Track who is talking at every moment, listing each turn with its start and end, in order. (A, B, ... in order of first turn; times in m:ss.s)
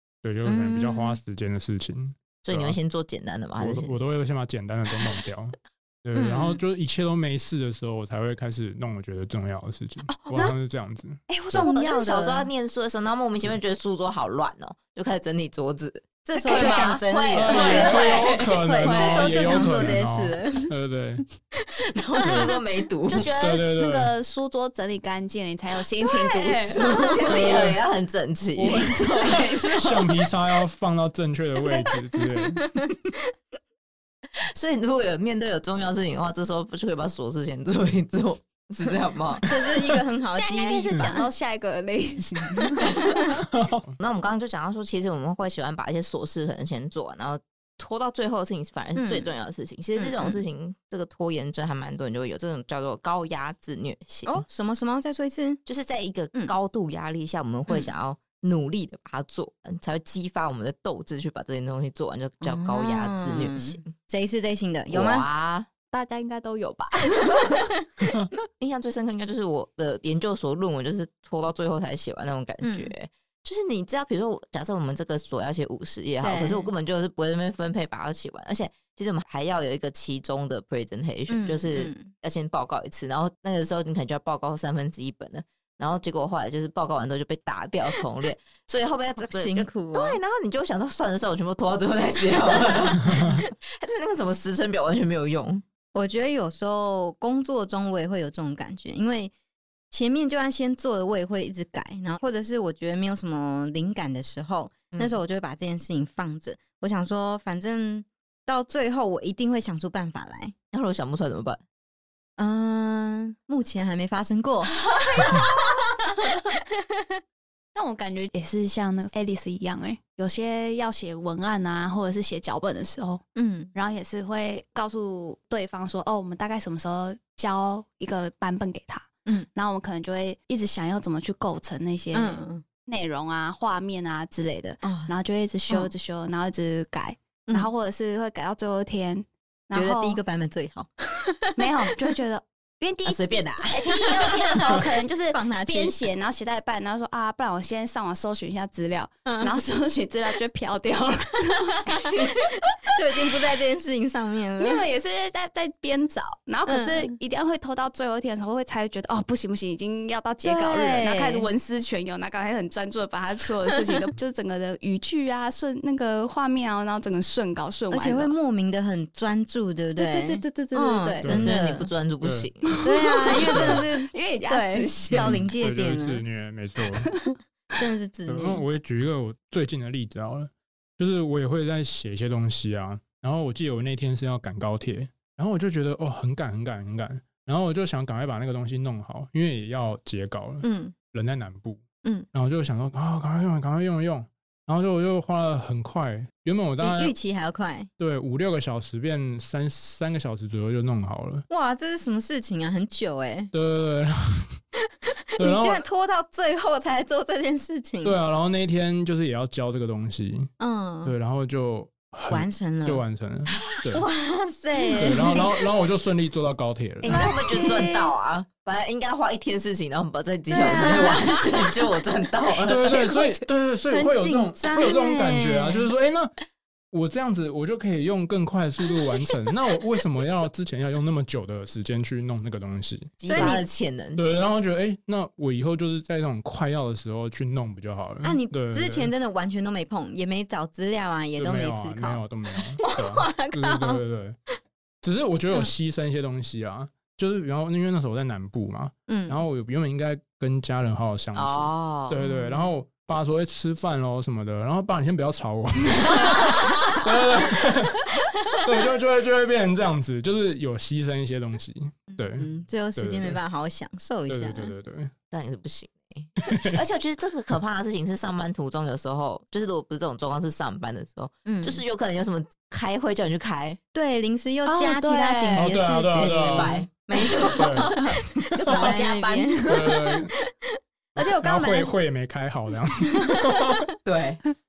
0:00.2-0:02.8 A
0:00.4-0:01.2 B
0:02.4-0:04.0 C
0:03.6-0:11.7 A
0:06.2-0:06.6 B
0:10.2-0:10.6 C
0:11.3-0:17.0 C
0:11.5-0:12.5 B
0:16.3-0:20.7 B
0:16.4-0:20.0 D
0:17.3-0:21.2 A
0:22.1-0:23.3 C
0:22.3-0:22.5 A
0:23.1-0:27.6 D
0:23.4-0:24.1 A
0:26.0-0:29.7 C
0:27.4-0:27.7 A
0:28.7-0:29.7 D
0:29.0-0:29.6 B
0:29.4-0:32.6 A
0:34.5-0:39.7 C
0:39.4-0:41.3 B
0:40.3-0:43.4 D
0:43.5-0:43.9 A
0:44.0-0:54.4 C
0:49.0-0:49.3 B
0:50.0-0:50.4 B
0:54.3-0:55.6 B
0:55.7-1:03.9 C
1:02.4-1:05.3 B
1:04.9-1:05.7 C
1:05.9-1:08.1 D
1:08.6-1:35.6 C
1:12.6-1:12.9 B
1:16.2-1:16.7 B
1:21.3-1:22.1 B
1:29.2-1:30.2 B
1:33.1-1:33.4 B
1:35.9-1:39.3 B
1:39.9-1:50.6 B
1:44.9-1:45.2 C
1:50.7-1:51.6 C
1:52.4-1:54.7 B
1:57.8-2:20.2 D
2:03.4-2:03.7 B
2:12.1-2:12.6 B
2:14.8-2:15.1 B
2:19.7-2:22.0 B
2:21.6-2:32.5 D
2:23.0-2:24.6 C
2:24.3-2:26.0 B
2:29.2-2:29.6 B
2:31.9-2:34.8 B
2:34.6-2:48.4 D
2:36.7-2:37.2 B
2:40.4-2:41.5 B
2:47.9-2:51.9 B
2:50.0-2:51.3 D
2:51.2-2:51.6 A
2:51.3-2:52.8 C
2:52.2-2:52.7 A
2:52.8-2:55.3 D
2:52.8-2:56.2 B
2:53.5-2:53.8 A
2:55.1-2:57.2 A
2:57.7-2:58.6 B
2:58.3-3:17.1 A
3:10.6-3:10.9 B
3:16.8-3:17.9 B
3:18.0-3:21.5 A
3:21.5-3:23.5 B
3:23.5-3:24.6 A
3:25.4-3:25.8 A
3:25.4-3:28.2 B
3:28.0-3:30.5 A
3:30.6-3:31.1 B
3:31.0-3:34.0 A
3:32.3-3:33.0 B
3:33.8-3:35.5 B
3:35.0-3:37.2 A
3:37.0-3:43.0 C
3:37.1-3:38.1 B
3:40.5-3:41.5 B
3:40.8-3:41.1 D
3:42.7-3:46.3 A
3:42.8-3:45.9 B
3:46.9-3:53.2 A
3:53.2-3:54.2 C
3:53.3-3:53.6 B
3:54.2-3:59.1 A
3:58.2-4:04.0 B
4:01.4-4:04.4 A
4:05.0-4:23.4 A
4:09.1-4:09.4 B
4:11.3-4:12.3 C
4:12.4-4:12.6 B
4:22.1-4:24.7 B
4:24.3-4:25.1 A
4:25.3-4:33.8 C
4:26.5-4:26.8 A
4:31.5-4:31.8 B
4:33.9-4:39.9 B
4:34.7-4:35.7 D
4:35.6-4:36.8 A
4:36.1-4:37.6 C
4:37.4-4:40.0 D
4:37.6-4:38.0 A
4:38.7-4:39.0 A
4:39.7-4:40.3 A
4:41.2-4:43.9 A
4:41.2-4:41.9 B
4:44.0-4:44.4 C